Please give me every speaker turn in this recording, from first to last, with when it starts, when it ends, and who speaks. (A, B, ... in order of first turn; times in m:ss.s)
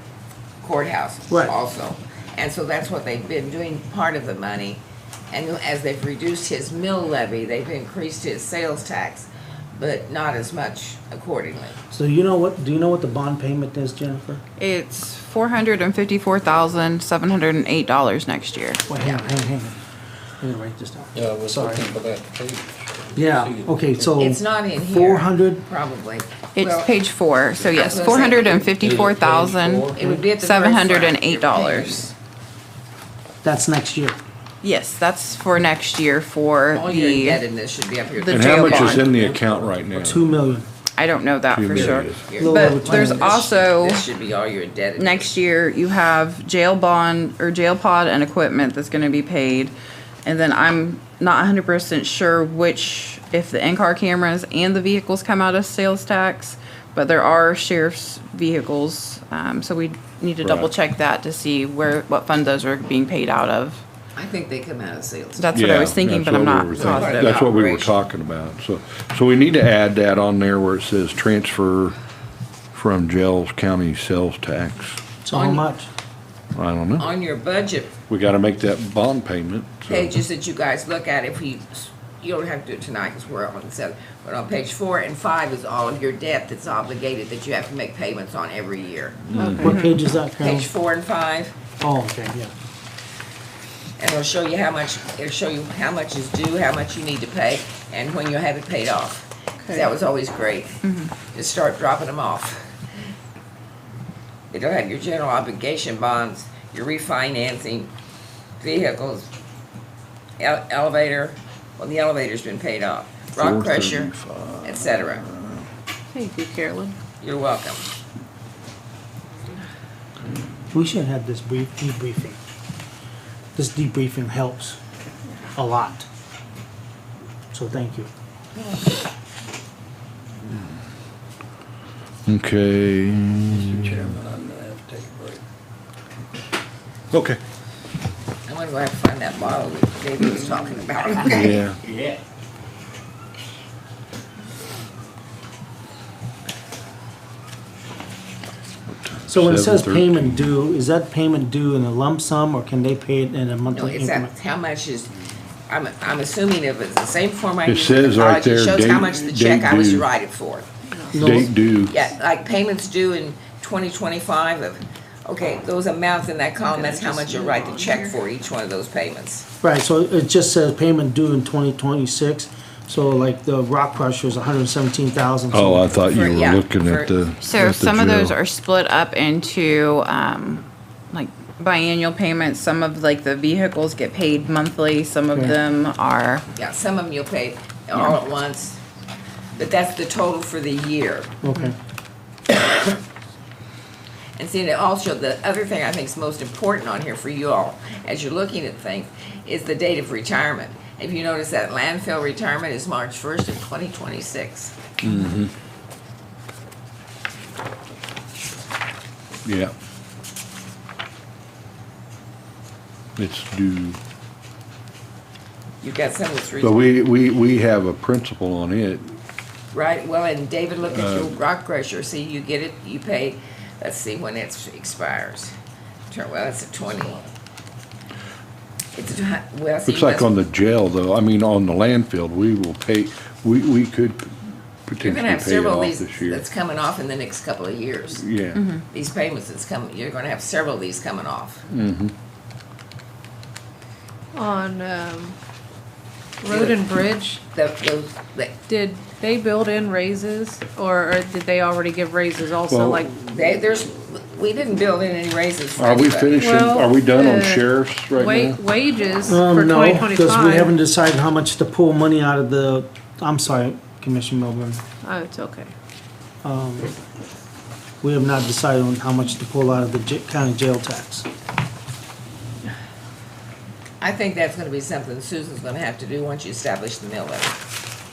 0:00.6-0:11.8 A
0:11.9-0:14.4 B
0:14.6-0:18.8 C
0:18.9-0:19.8 B
0:20.4-0:21.9 B
0:21.2-0:24.3 D
0:23.2-0:25.7 B
0:24.2-0:26.9 A
0:26.6-0:32.1 C
0:27.7-0:28.9 A
0:28.6-0:30.0 D
0:29.9-0:32.1 A
0:33.4-0:34.2 B
0:34.6-0:37.4 C
0:36.7-0:39.1 A
0:38.2-0:39.1 C
0:38.3-0:40.3 E
0:39.0-0:40.2 D
0:40.0-0:40.7 B
0:41.0-0:44.0 C
0:41.5-0:42.3 E
0:41.8-0:42.0 D
0:42.3-0:45.4 A
0:42.4-0:43.4 B
0:45.0-0:49.7 C
0:50.2-1:03.8 C
1:00.4-1:00.7 E
1:04.2-1:05.5 A
1:05.4-1:07.5 C
1:05.6-1:12.0 E
1:06.7-1:07.9 A
1:12.7-1:15.0 E
1:15.2-1:15.9 B
1:15.3-1:15.7 A
1:16.6-1:17.0 E
1:17.0-1:17.9 A
1:18.1-1:20.1 E
1:19.9-1:29.4 A
1:29.3-1:29.7 E
1:29.4-1:29.7 F
1:29.6-1:30.7 B
1:29.6-1:29.9 C
1:30.4-1:31.5 A
1:31.8-1:32.5 B
1:34.0-1:42.7 A
1:39.6-1:39.9 F
1:40.8-1:41.1 C
1:44.5-1:47.9 A
1:48.6-1:49.3 A
1:50.4-1:55.3 A
1:53.4-1:55.6 E
1:56.1-1:57.0 F
1:57.2-1:57.9 A
2:00.7-2:02.4 B
2:03.6-2:04.8 B
2:05.6-2:06.1 B
2:07.5-2:08.1 B
2:12.3-2:14.2 E
2:13.5-2:15.4 D
2:17.1-2:17.4 E
2:18.5-2:21.6 A
2:21.3-2:21.8 E
2:21.8-2:22.2 D
2:28.9-2:30.5 E
2:29.3-2:34.3 B
2:33.7-2:35.2 A
2:35.7-2:40.7 A
2:37.6-2:40.1 E
2:40.9-2:41.2 F
2:41.1-2:41.6 B
2:41.2-2:42.1 E
2:41.9-2:49.5 A
2:46.7-2:48.2 F
2:49.6-2:55.9 B
2:55.5-2:58.4 E
2:56.1-2:57.2 A
2:57.4-3:06.4 C
3:06.6-3:08.8 A
3:09.6-3:11.3 A
3:11.4-3:11.8 B
3:14.4-3:24.8 A
3:25.0-3:25.5 E
3:29.4-3:29.7 E
3:33.2-3:34.0 E
3:35.8-3:37.0 A
3:36.6-3:39.1 E
3:39.7-3:45.5 A
3:40.9-3:41.4 E
3:46.1-3:47.3 A
3:49.0-3:50.3 A
3:49.9-3:56.4 E
3:55.0-3:58.2 A
3:58.2-3:58.6 E
3:58.6-3:58.8 C
3:58.9-4:01.6 A
4:01.7-4:02.1 E
4:04.3-4:05.4 F
4:06.4-4:07.4 F
4:06.5-4:06.8 A
4:07.5-4:08.6 A
4:08.7-4:13.1 F
4:12.6-4:13.1 E
4:13.2-4:16.4 A
4:15.8-4:18.6 E
4:16.4-4:20.7 F
4:19.2-4:24.8 B
4:25.0-4:25.7 F
4:26.4-4:26.9 B
4:28.0-4:31.3 B
4:34.0-4:37.6 A